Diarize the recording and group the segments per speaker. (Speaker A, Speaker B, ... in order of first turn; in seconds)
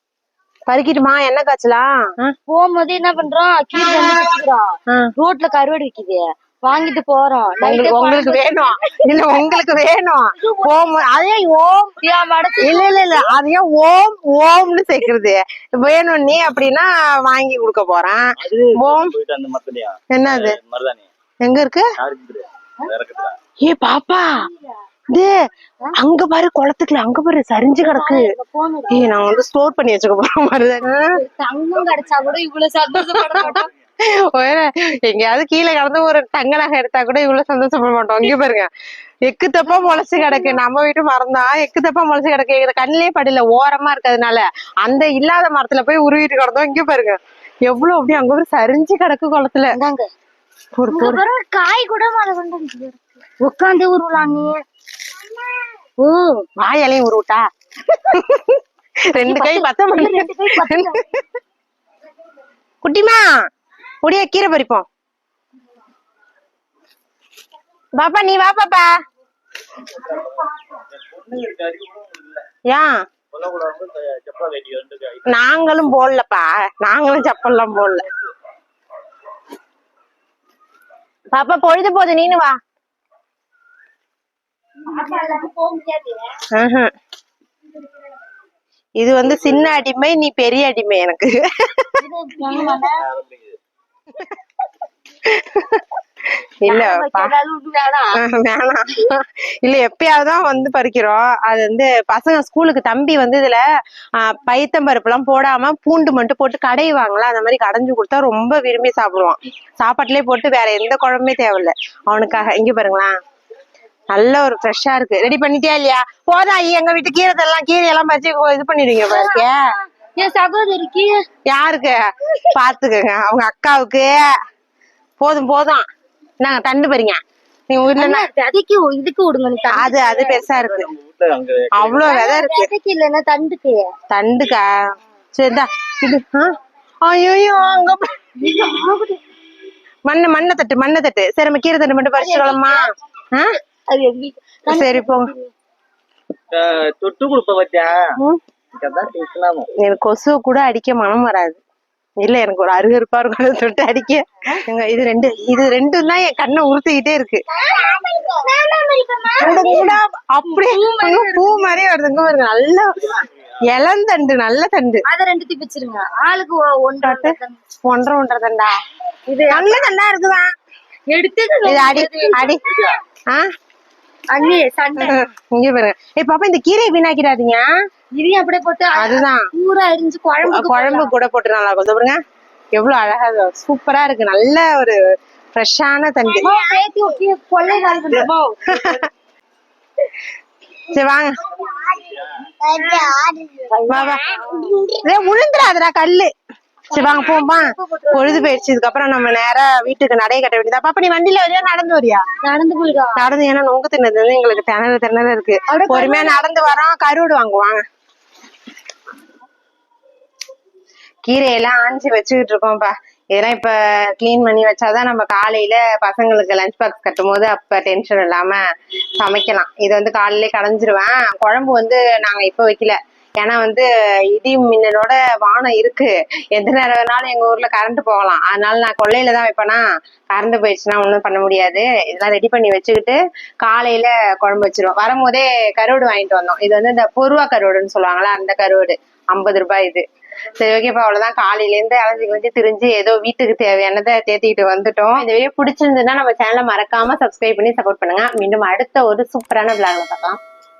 Speaker A: 0.7-2.3, 3.8-4.2, 7.6-11.9, 12.6-18.2, 18.8-19.1, 20.1-20.6, 21.4-21.9, 23.6-24.3, 25.1-25.4, 25.9-28.2, 28.9-31.2, 33.0-33.7, 34.3-38.7, 39.3-49.7, 50.8-51.2, 56.6-58.6, 59.1-61.3, 62.8-63.2, 64.0-64.8, 68.0-68.9, 75.3-78.1, 81.3-82.6, 86.5-86.9, 89.0-91.9, 95.2-95.8, 96.4-97.3, 98.2-103.6, 104.2-113.1, 114.1-119.6, 121.5-122.0, 122.5-124.2, 125.2-125.8, 126.4-128.3, 129.7-130.9, 131.7-132.7, 134.1-134.7, 135.3-136.5, 137.0-138.1, 140.1-142.8, 144.7-145.3, 149.8-151.6, 152.2-157.4, 159.4-165.0, 167.0-168.7, 169.5-170.5, 171.7-172.6, 174.9-177.7, 178.9-179.5, 180.4-182.2, 182.7-185.0, 185.5-186.5, 188.7-189.1, 190.9-191.4, 193.9-194.2, 195.0-196.3, 196.9-202.2, 203.2-207.8, 211.3-218.6, 219.2-240.0, 240.6-250.4
Speaker B: 2.5-9.4, 10.3-10.7, 12.0-13.3, 24.4-24.7, 27.8-29.1, 31.1-33.7, 39.6-40.6, 49.7-50.1, 50.9-54.6, 56.0-56.5, 59.2-61.0, 84.8-86.4, 92.0-93.0, 96.7-98.2, 119.1-119.5, 120.2-121.2, 128.0-130.4, 132.0-133.9, 138.4-139.2, 142.2-142.9, 143.9-145.5, 157.5-161.8, 165.1-167.6, 169.3-169.9, 171.1-172.8, 174.3-175.2, 178.2-181.1, 186.4-188.9, 191.5-192.1, 192.6-195.0, 196.9-198.6, 202.4-203.2, 205.7-206.5
Speaker C: 18.4-21.1, 22.0-23.4, 31.8-32.4, 69.9-72.5, 73.3-75.4, 89.2-89.7, 92.5-93.6, 130.2-132.1, 146.5-148.0, 148.7-149.7, 172.6-172.9, 192.1-192.4